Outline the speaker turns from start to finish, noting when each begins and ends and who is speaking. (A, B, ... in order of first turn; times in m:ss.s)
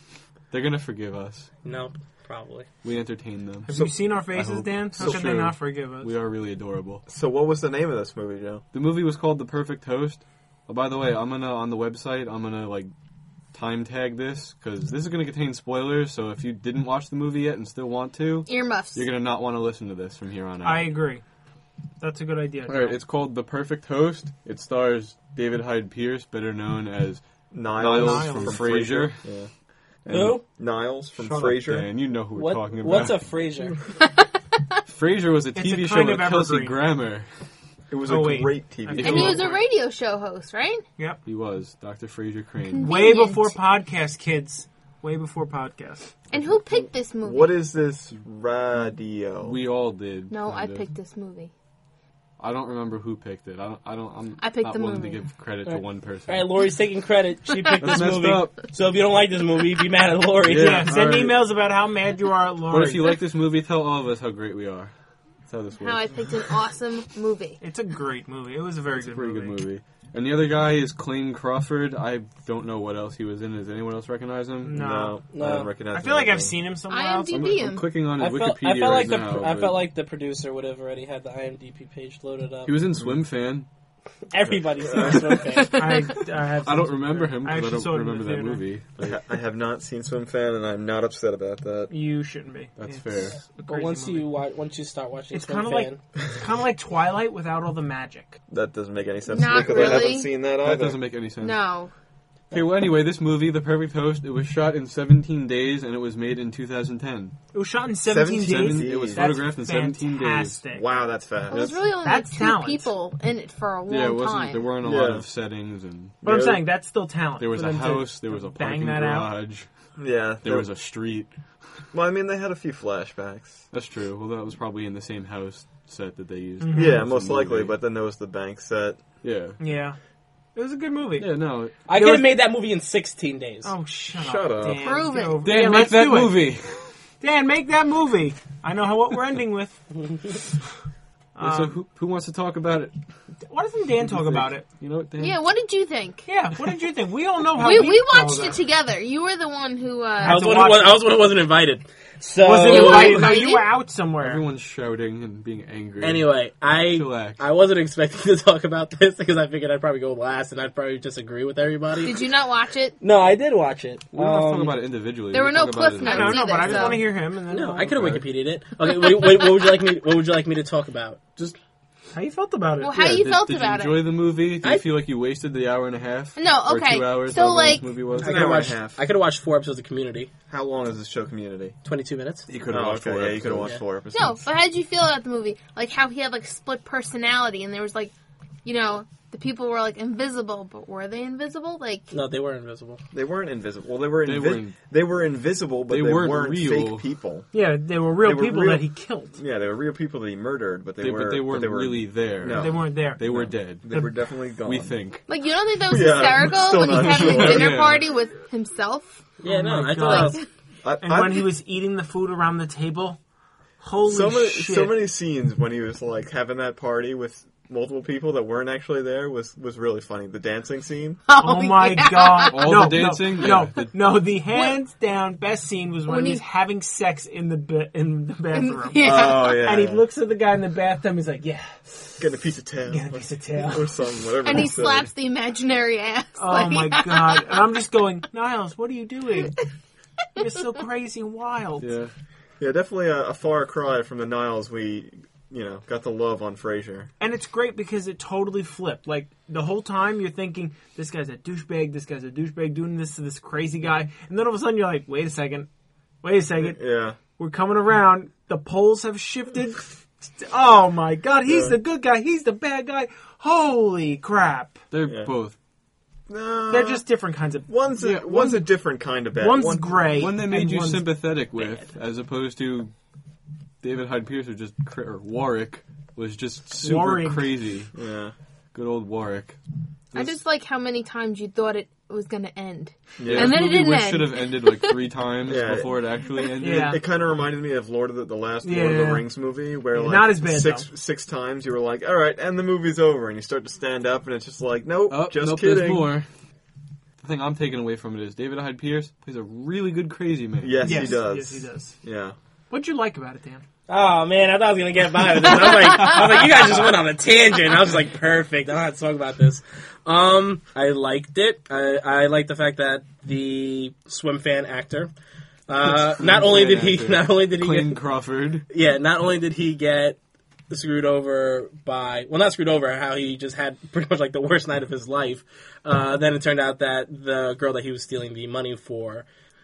0:00.5-0:01.5 A
0:01.6-0:02.7 B
0:02.8-0:03.8 A
0:03.7-0:06.1 C
0:03.7-0:04.0 D
0:04.3-0:07.0 A
0:07.1-0:08.6 D
0:08.7-0:12.9 A
0:13.5-0:21.0 A
0:18.5-0:19.0 E
0:20.6-0:21.2 C
0:22.0-0:23.0 C
0:22.7-0:27.2 A
0:27.5-0:29.5 D
0:27.8-0:29.3 A
0:27.9-0:28.7 C
0:30.0-0:30.5 A
0:30.1-0:30.4 B
0:30.5-0:31.9 D
0:31.2-0:33.3 A
0:32.3-0:33.8 B
0:34.9-0:37.3 A
0:35.5-0:36.8 C
0:37.9-0:39.4 D
0:38.1-0:39.6 C
0:39.0-0:40.8 E
0:39.0-0:39.4 A
0:41.2-0:42.9 A
0:42.7-0:43.6 E
0:42.8-0:46.1 C
0:46.3-0:47.5 E
0:47.2-0:49.6 D
0:49.4-0:50.8 A
0:50.3-0:51.5 E
0:52.4-0:56.5 A
0:54.4-0:55.3 E
0:55.7-1:00.9 B
0:57.8-0:58.6 A
1:00.4-1:01.5 A
1:00.6-1:03.2 C
1:02.7-1:04.9 A
1:05.5-1:06.1 A
1:05.8-1:07.6 E
1:07.6-1:09.6 C
1:09.0-1:14.8 A
1:14.6-1:15.2 C
1:14.7-1:16.6 D
1:15.3-1:15.7 B
1:15.9-1:17.6 C
1:16.9-1:17.9 E
1:17.3-1:19.8 A
1:18.2-1:22.8 B
1:22.7-1:23.7 A
1:24.3-1:25.8 B
1:24.5-1:25.2 D
1:25.6-1:26.2 E
1:25.7-1:28.6 C
1:26.6-1:29.2 A
1:29.0-1:31.9 D
1:31.9-1:34.3 C
1:32.8-1:33.4 A
1:33.7-1:36.0 B
1:35.3-1:38.4 C
1:38.5-1:41.0 D
1:39.3-1:40.3 E
1:39.7-1:41.6 A
1:41.4-1:41.9 E
1:42.5-1:47.4 A
1:47.5-1:50.9 C
1:48.0-1:49.4 D
1:48.4-1:50.6 A
1:50.7-1:51.8 D
1:51.5-1:54.7 E
1:51.5-1:52.9 C
1:53.9-1:56.2 A
1:54.8-1:55.3 D
1:56.2-1:56.6 D
1:56.2-1:59.3 C
1:57.4-1:59.7 A
2:00.0-2:00.7 D
2:00.4-2:01.3 A
2:01.9-2:03.6 D
2:03.7-2:07.7 A
2:06.6-2:07.0 C
2:06.7-2:09.0 D
2:09.2-2:09.6 A
2:09.6-2:10.0 C
2:10.6-2:11.4 C
2:11.2-2:11.8 A
2:11.9-2:13.7 B
2:11.9-2:12.3 C
2:13.6-2:16.5 C
2:14.2-2:14.9 D
2:14.8-2:15.5 E
2:15.4-2:16.9 A
2:17.2-2:20.4 C
2:21.4-2:21.8 C
2:21.4-2:22.9 A
2:23.5-2:24.7 C
2:24.0-2:25.4 A
2:25.2-2:26.2 E
2:26.3-2:28.6 C
2:27.5-2:30.5 E
2:30.2-2:31.0 C
2:30.2-2:33.4 B
2:32.4-2:34.4 C
2:32.6-2:33.7 E
2:34.2-2:37.4 A
2:36.0-2:42.2 B
2:42.0-2:43.0 E
2:43.0-2:44.8 B
2:44.1-2:47.0 A
2:45.3-2:47.1 E
2:46.0-2:47.9 C
2:47.5-2:51.2 B
2:47.8-2:48.2 A
2:52.1-2:53.2 C
2:52.8-2:54.1 E
2:52.9-2:58.7 A
2:56.4-2:58.0 E
2:58.2-2:59.0 D
2:58.2-3:00.3 B
3:00.5-3:01.8 D
3:01.8-3:02.5 B
3:02.5-3:03.7 A
3:02.7-3:04.4 D
3:04.1-3:08.1 E
3:08.6-3:12.2 E
3:12.1-3:13.0 B
3:13.1-3:17.5 D
3:14.2-3:14.8 A
3:15.9-3:17.0 A
3:17.5-3:19.4 C
3:18.2-3:25.0 D
3:21.0-3:24.1 A
3:22.5-3:23.2 C
3:24.6-3:25.2 A
3:25.3-3:29.4 E
3:25.9-3:27.8 D
3:26.6-3:28.1 A
3:29.4-3:30.4 B
3:29.4-3:30.4 C
3:29.9-3:30.5 E
3:30.8-3:31.5 D
3:31.0-3:33.2 C
3:33.8-3:35.0 C
3:34.0-3:41.2 D
3:41.3-3:43.1 E
3:41.4-3:52.2 C
3:42.5-3:44.2 A
3:46.1-3:46.4 E
3:48.5-3:49.6 E
3:49.0-3:50.0 D
3:52.2-3:55.1 D
3:52.9-3:53.9 C
3:54.4-3:57.7 E
3:56.4-3:59.6 C
4:00.4-4:01.9 C
4:01.8-4:02.1 A
4:02.6-4:07.1 D
4:07.2-4:15.7 C
4:16.2-4:24.8 C
4:16.6-4:17.2 D
4:21.5-4:21.8 D
4:24.9-4:25.6 A
4:25.0-4:25.3 D
4:26.3-4:27.0 D
4:26.7-4:28.6 C
4:27.7-4:30.3 D
4:28.0-4:28.3 A
4:29.4-4:31.1 C
4:30.2-4:32.9 A
4:33.8-4:37.9 A
4:36.8-4:37.6 C
4:37.9-4:38.4 D
4:38.7-4:39.6 A
4:40.1-4:45.0 E
4:43.2-4:43.6 D
4:43.3-4:47.0 A
4:45.5-4:46.0 D
4:46.6-4:47.0 C
4:46.7-4:56.1 D
4:48.6-4:49.3 C
4:49.9-4:50.9 C
4:55.1-4:56.3 A
4:57.2-5:01.2 A
5:00.6-5:02.4 D
5:00.8-5:02.0 C
5:02.7-5:03.6 C
5:03.9-5:15.1 B
5:15.7-5:18.0 B
5:15.8-5:18.7 A
5:18.7-5:20.2 B
5:20.7-5:29.3 B